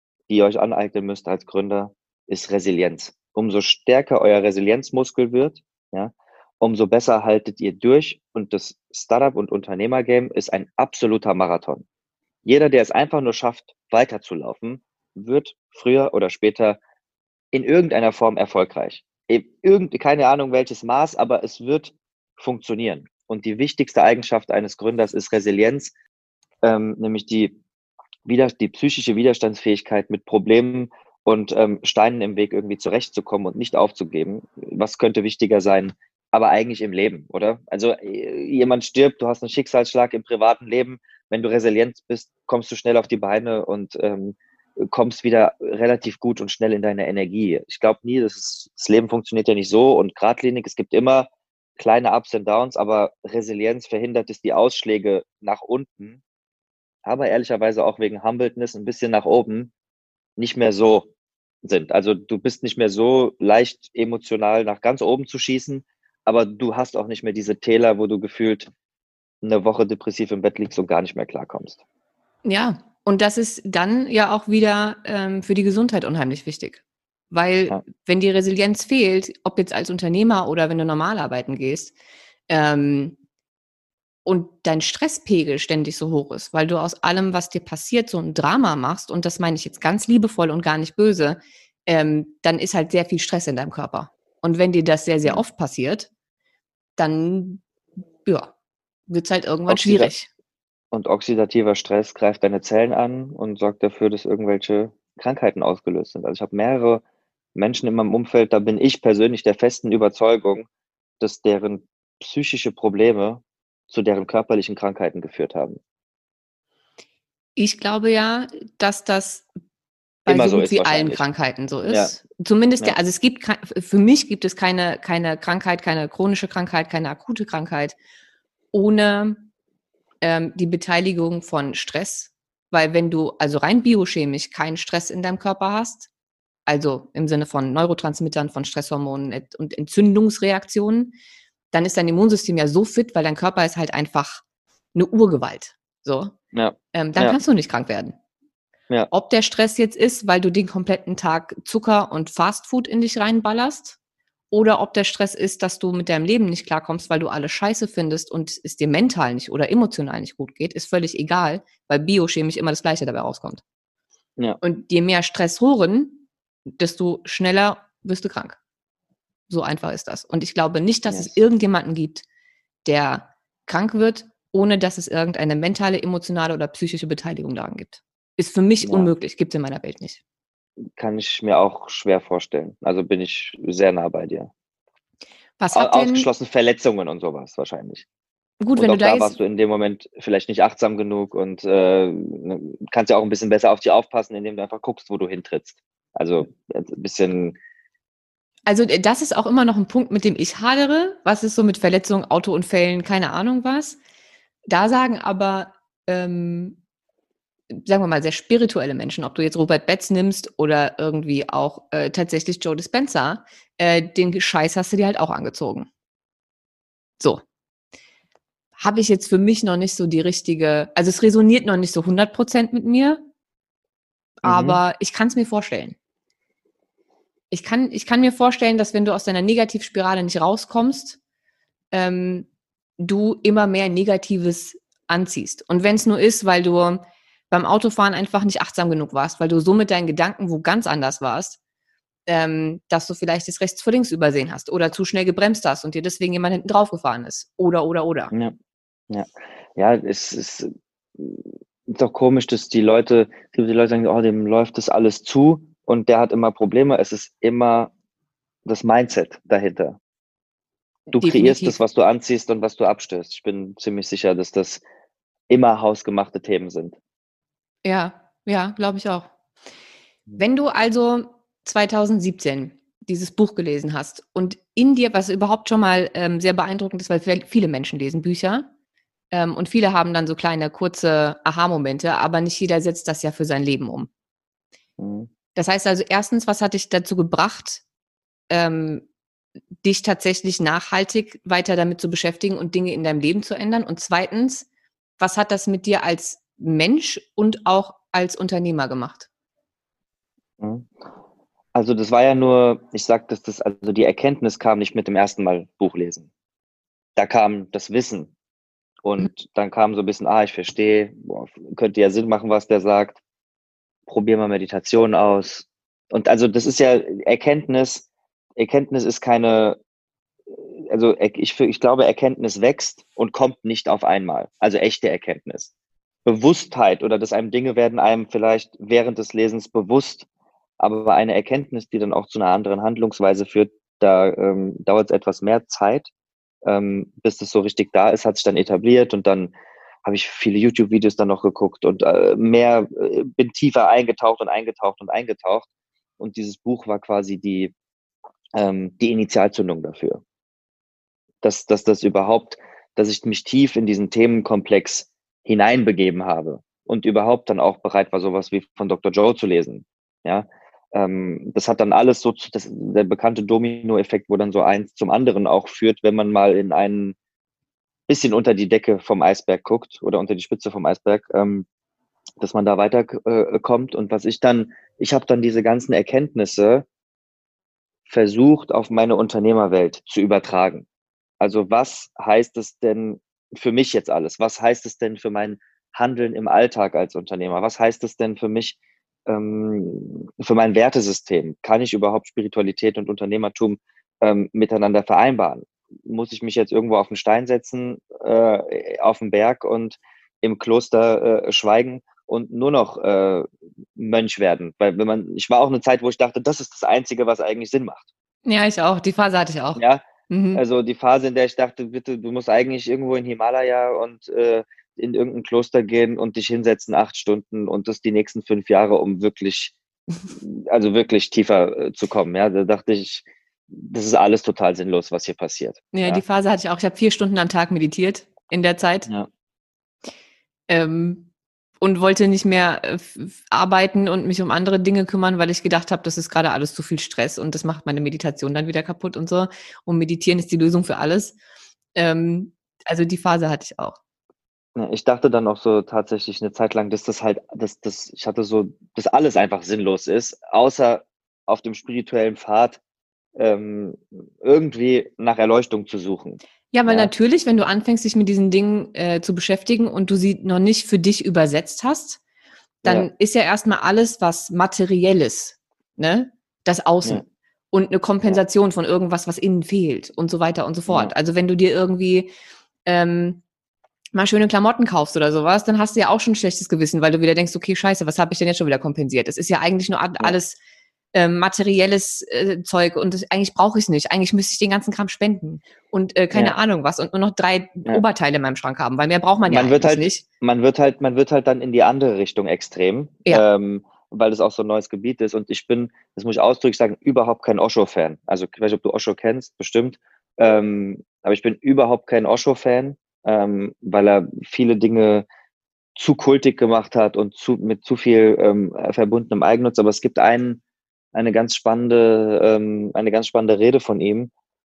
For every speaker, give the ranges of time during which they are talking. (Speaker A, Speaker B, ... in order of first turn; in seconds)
Speaker A: 0.3-11.8, 12.4-16.8, 17.5-25.9, 26.6-27.6, 28.2-56.2, 57.0-59.7, 60.4-61.1, 61.6-68.7, 69.4-71.8, 99.7-100.1, 100.9-107.0, 107.5-110.7, 111.2-115.8, 120.3-121.2, 121.8-122.2, 146.5-147.4, 171.1-171.3, 178.8-179.1, 180.9-184.5, 185.7-188.1, 188.8-197.6, 224.4-224.8, 249.1-257.9, 258.6-260.0, 261.1-264.8, 265.5-267.0, 285.0-285.3, 300.6-300.9, 301.7-306.3, 307.1-308.3, 309.0-313.2, 314.1-318.1, 318.6-319.8, 320.6-325.7, 326.2-330.2, 330.8-336.1, 336.6-339.5, 340.0-345.7, 346.2-347.7, 348.5-350.2, 351.4-367.1, 368.1-371.6, 372.4-376.9, 378.1-380.9, 381.4-388.8, 389.3-408.1, 409.8-419.7, 420.3-426.2, 444.8-452.8, 453.4-457.1, 470.9-471.1, 489.5-505.2, 505.9-510.6, 511.1-514.3
Speaker B: 72.4-81.9, 82.5-83.2, 84.2-96.1, 97.0-97.6, 98.2-98.5, 99.1-100.3, 117.5-119.5, 120.2-128.0, 128.7-129.4, 130.2-136.1, 136.7-141.1, 141.7-144.4, 144.9-146.3, 146.9-148.1, 149.1-154.0, 154.5-163.6, 164.6-168.6, 169.5-172.2, 172.8-180.2, 185.6-186.3, 188.6-189.3, 198.7-204.0, 204.7-206.8, 207.7-215.9, 218.8-223.2, 224.4-225.9, 227.5-231.2, 231.9-232.5, 233.0-241.6, 242.3-248.3, 261.1-261.8, 267.8-269.3, 270.4-278.7, 279.3-284.1, 285.5-287.8, 288.5-289.0, 289.8-294.6, 295.2-299.3, 408.4-410.6, 425.9-429.1, 430.7-431.3, 431.8-441.4, 441.9-444.0, 456.7-462.2, 462.8-472.3, 472.9-473.4, 474.1-480.6, 481.1-490.2